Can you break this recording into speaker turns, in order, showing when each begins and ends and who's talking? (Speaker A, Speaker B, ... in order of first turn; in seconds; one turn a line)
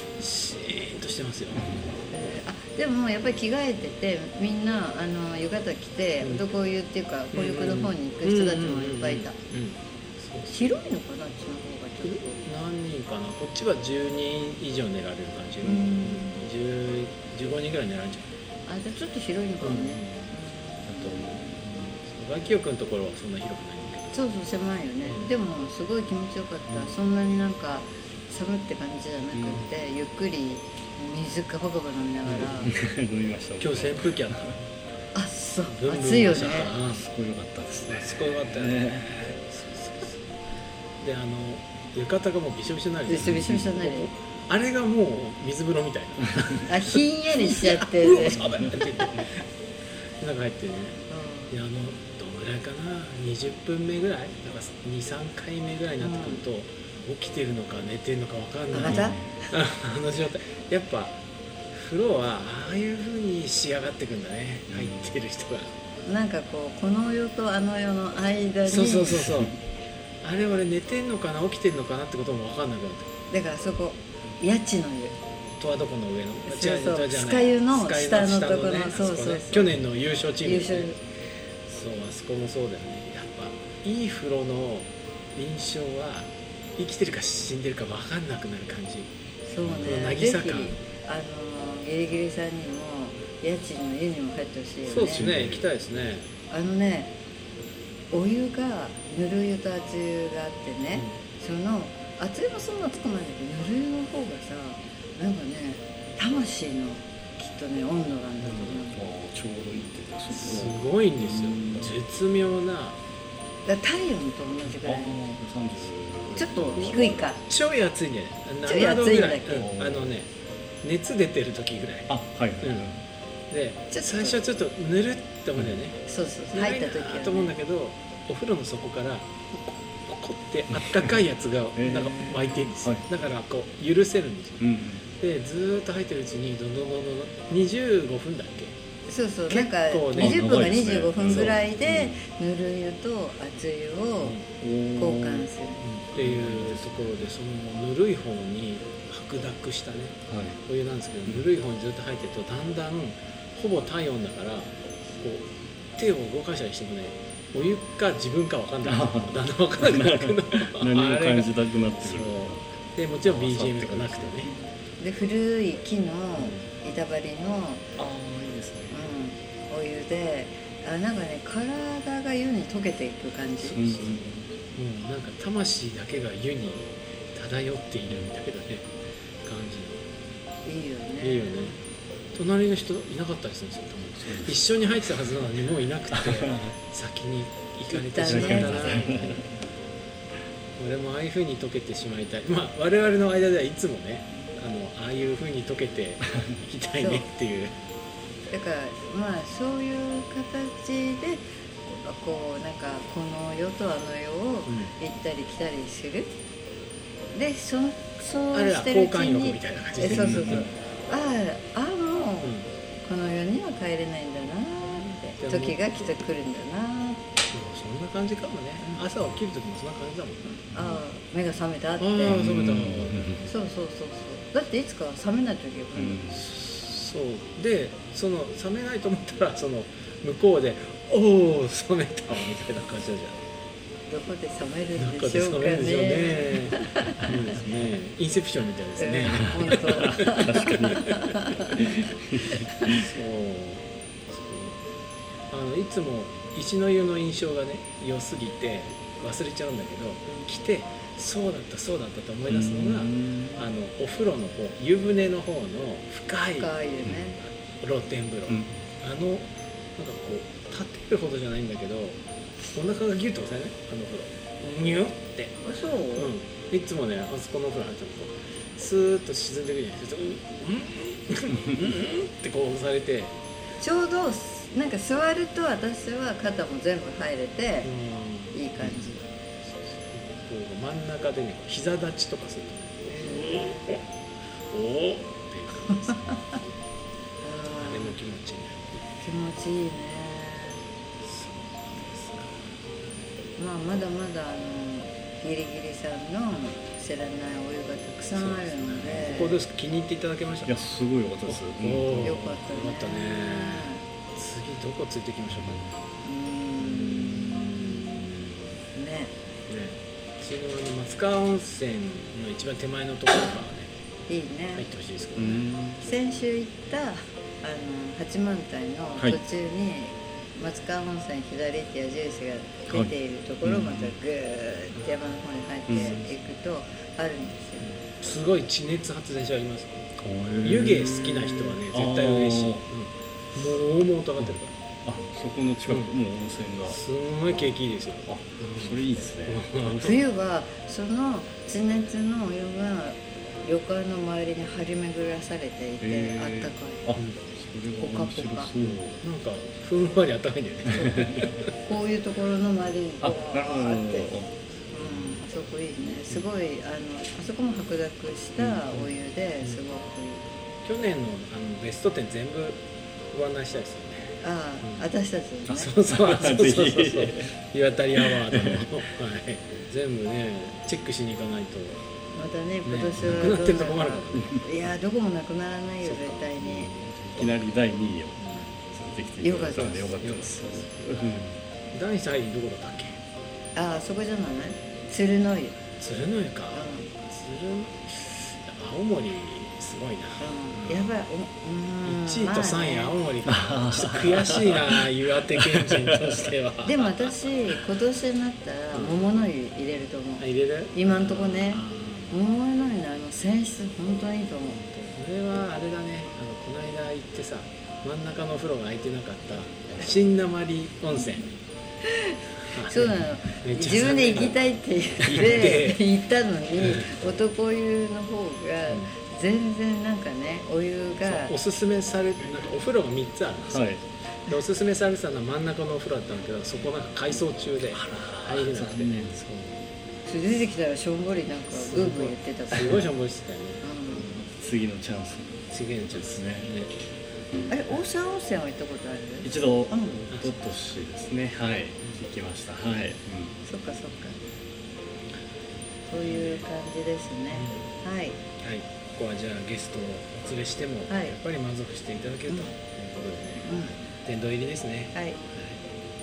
Speaker A: 0.2-1.9
Speaker B: 2.1-9.3
Speaker A: 7.3-10.7
Speaker B: 10.5-12.4
Speaker A: 12.0-18.3
Speaker B: 15.6-16.4
Speaker B: 18.6-21.6
Speaker A: 19.6-20.3
Speaker C: 20.9-21.6
Speaker A: 21.6-24.2
Speaker B: 24.1-32.7
Speaker A: 25.0-25.3
Speaker A: 26.7-26.9
Speaker C: 29.3-29.6
Speaker A: 32.3-32.7
Speaker C: 32.3-34.5
Speaker A: 33.6-34.6
Speaker B: 35.1-36.7
Speaker A: 35.7-37.0
Speaker C: 36.3-39.3
Speaker A: 37.9-40.2
Speaker A: 41.0-49.2
Speaker B: 43.1-44.1
Speaker C: 43.2-43.7
Speaker B: 46.6-48.4
Speaker C: 48.2-49.3
Speaker A: 50.2-61.1
Speaker B: 51.1-51.5
Speaker B: 56.0-56.4
Speaker B: 58.7-59.4
Speaker C: 58.8-59.3
Speaker A: 61.7-65.7
Speaker C: 64.7-65.1
Speaker B: 66.0-69.2
Speaker A: 68.7-69.5
Speaker A: 70.2-73.1
Speaker B: 73.3-75.2
Speaker A: 75.6-81.0
Speaker B: 76.5-79.7
Speaker B: 80.4-80.9
Speaker A: 81.7-89.1
Speaker B: 89.5-95.3
Speaker C: 89.6-89.9
Speaker A: 89.8-90.8
Speaker A: 94.8-96.3
Speaker C: 94.9-95.7
Speaker B: 96.5-97.1
Speaker B: 98.1-109.1
Speaker A: 108.4-108.9
Speaker C: 108.9-111.9
Speaker A: 110.3-113.0
Speaker B: 113.6-115.2
Speaker C: 114.6-117.3
Speaker B: 116.3-117.4
Speaker A: 117.5-120.3
Speaker B: 118.6-119.7
Speaker C: 119.5-120.1
Speaker A: 120.8-123.0
Speaker C: 122.1-123.0
Speaker A: 123.5-126.0
Speaker B: 123.9-124.4
Speaker B: 126.1-127.5
Speaker A: 126.5-134.6
Speaker C: 130.7-131.2
Speaker C: 131.8-133.1
Speaker C: 134.6-135.0
Speaker A: 135.2-138.7
Speaker B: 139.1-144.4
Speaker A: 139.5-141.6
Speaker C: 140.1-142.2
Speaker A: 144.2-144.5
Speaker C: 144.6-145.5
Speaker B: 144.9-145.8
Speaker A: 145.8-155.4
Speaker C: 146.1-147.2
Speaker C: 150.3-150.6
Speaker A: 156.0-164.5
Speaker C: 158.8-162.6
Speaker C: 163.2-164.4
Speaker B: 164.4-167.8
Speaker A: 166.4-166.7
Speaker C: 168.0-169.0
Speaker B: 168.9-173.8
Speaker A: 173.6-178.8
Speaker C: 173.8-174.5
Speaker A: 179.4-180.0
Speaker B: 180.6-181.7
Speaker A: 181.2-181.8
Speaker A: 182.3-189.5
Speaker C: 184.2-184.6
Speaker C: 186.1-186.7
Speaker B: 187.9-189.4
Speaker C: 188.2-189.4
Speaker A: 190.8-197.7
Speaker B: 197.0-197.3
Speaker B: 198.5-206.3
Speaker A: 204.7-204.9
Speaker B: 207.3-217.2
Speaker A: 208.5-210.7
Speaker C: 210.1-210.7
Speaker A: 212.4-212.7
Speaker A: 214.8-216.1
Speaker A: 217.4-220.4
Speaker B: 218.8-219.1
Speaker B: 220.5-222.4
Speaker C: 220.7-221.0
Speaker A: 222.0-223.4
Speaker C: 222.2-223.5
Speaker B: 223.4-226.2
Speaker C: 225.9-226.4
Speaker A: 226.3-233.4
Speaker B: 234.1-237.3
Speaker A: 235.0-241.2
Speaker B: 239.0-242.0
Speaker C: 239.4-243.1
Speaker B: 242.7-243.0
Speaker A: 242.9-244.8
Speaker A: 245.5-262.2
Speaker C: 252.5-253.7
Speaker B: 256.6-257.4
Speaker C: 257.0-257.3
Speaker C: 258.5-258.8
Speaker A: 262.7-265.6
Speaker B: 265.6-266.3
Speaker A: 266.1-273.3
Speaker B: 273.8-277.9
Speaker A: 277.8-284.0
Speaker B: 278.5-279.2
Speaker B: 283.0-283.8
Speaker A: 284.7-286.6
Speaker B: 285.9-286.6
Speaker B: 287.4-288.2
Speaker A: 287.8-289.0
Speaker B: 289.2-290.8
Speaker A: 291.2-292.6
Speaker B: 293.6-299.6
Speaker A: 298.2-300.7
Speaker C: 299.0-299.4
Speaker C: 300.6-302.6
Speaker A: 301.5-305.9
Speaker B: 302.2-304.0
Speaker C: 305.5-305.9
Speaker B: 306.2-308.1
Speaker A: 306.8-308.7
Speaker B: 308.9-309.3
Speaker A: 309.7-313.9
Speaker B: 314.3-314.8
Speaker A: 314.7-315.6
Speaker C: 315.4-316.1
Speaker B: 316.0-327.9
Speaker C: 322.9-324.1
Speaker C: 325.9-326.2
Speaker A: 325.9-326.3
Speaker A: 327.9-330.1
Speaker C: 330.2-332.8
Speaker A: 330.6-334.7
Speaker C: 334.4-337.7
Speaker A: 336.9-340.2
Speaker C: 338.2-340.2
Speaker B: 340.0-347.1
Speaker C: 346.0-349.2
Speaker B: 348.0-348.7
Speaker A: 348.8-351.7
Speaker B: 350.9-354.3
Speaker C: 353.2-354.5
Speaker B: 354.9-360.4
Speaker A: 355.0-355.4
Speaker A: 358.6-359.8
Speaker A: 360.8-365.0
Speaker B: 364.4-365.9
Speaker A: 365.7-372.0
Speaker C: 366.0-367.5
Speaker C: 368.1-368.9
Speaker B: 372.3-376.9
Speaker A: 372.8-374.6
Speaker C: 373.2-373.5
Speaker A: 376.0-377.6
Speaker C: 377.3-378.4
Speaker A: 378.4-378.9
Speaker C: 378.9-381.5
Speaker B: 379.4-380.2
Speaker A: 379.7-380.9
Speaker A: 381.9-383.2
Speaker B: 383.7-385.8
Speaker A: 386.0-391.1
Speaker B: 386.7-387.1
Speaker B: 390.4-393.1
Speaker A: 392.0-397.3
Speaker C: 393.4-396.3
Speaker B: 396.8-404.8
Speaker A: 398.9-399.5
Speaker A: 400.4-402.4
Speaker A: 404.8-411.5
Speaker A: 412.7-414.6
Speaker B: 412.9-421.6
Speaker A: 415.2-416.0
Speaker A: 416.8-417.1
Speaker A: 421.2-423.9
Speaker C: 423.7-424.0
Speaker A: 424.4-429.8
Speaker C: 427.9-429.4
Speaker B: 430.2-433.0
Speaker A: 431.7-433.8
Speaker B: 433.8-434.4
Speaker C: 434.1-436.7
Speaker A: 435.7-436.9
Speaker B: 437.7-440.2
Speaker C: 439.4-443.5
Speaker B: 443.6-444.4
Speaker B: 446.1-448.4
Speaker A: 446.2-446.6
Speaker A: 447.5-447.9
Speaker A: 448.6-455.8
Speaker B: 451.1-451.4
Speaker B: 453.6-453.9
Speaker B: 455.1-455.4